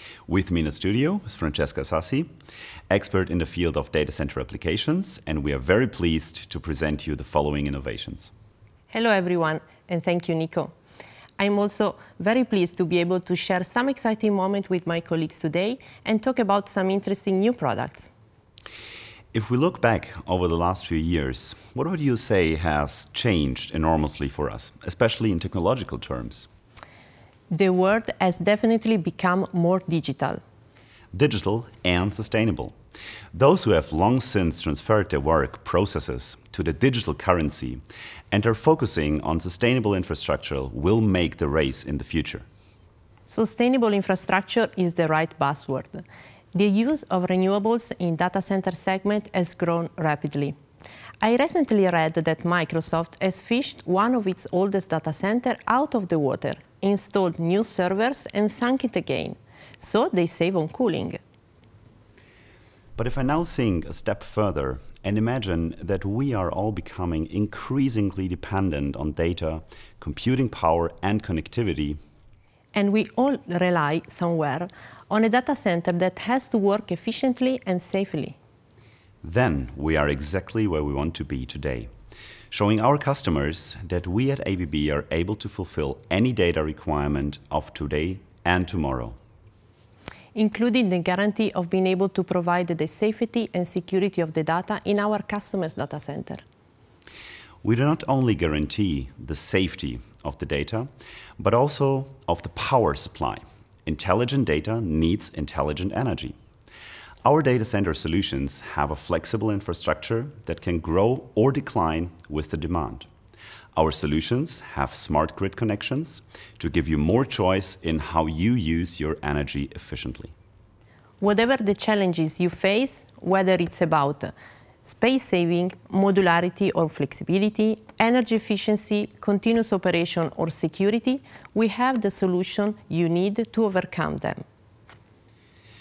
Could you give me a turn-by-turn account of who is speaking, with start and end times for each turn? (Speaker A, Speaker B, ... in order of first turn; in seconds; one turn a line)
Speaker A: 0.3-2.3
Speaker A: 2.9-8.3
Speaker B: 8.9-10.7
Speaker B: 11.4-18.1
Speaker A: 19.3-26.5
Speaker B: 27.5-30.4
Speaker A: 31.1-32.8
Speaker A: 33.3-42.5
Speaker B: 43.3-50.6
Speaker B: 51.2-61.2
Speaker A: 63.0-72.0
Speaker B: 72.7-78.4
Speaker A: 79.2-81.9
Speaker A: 82.5-89.2
Speaker B: 90.3-96.4
Speaker A: 97.6-106.3
Speaker A: 107.2-113.1
Speaker A: 113.8-120.3
Speaker B: 121.2-124.3
Speaker B: 124.8-134.4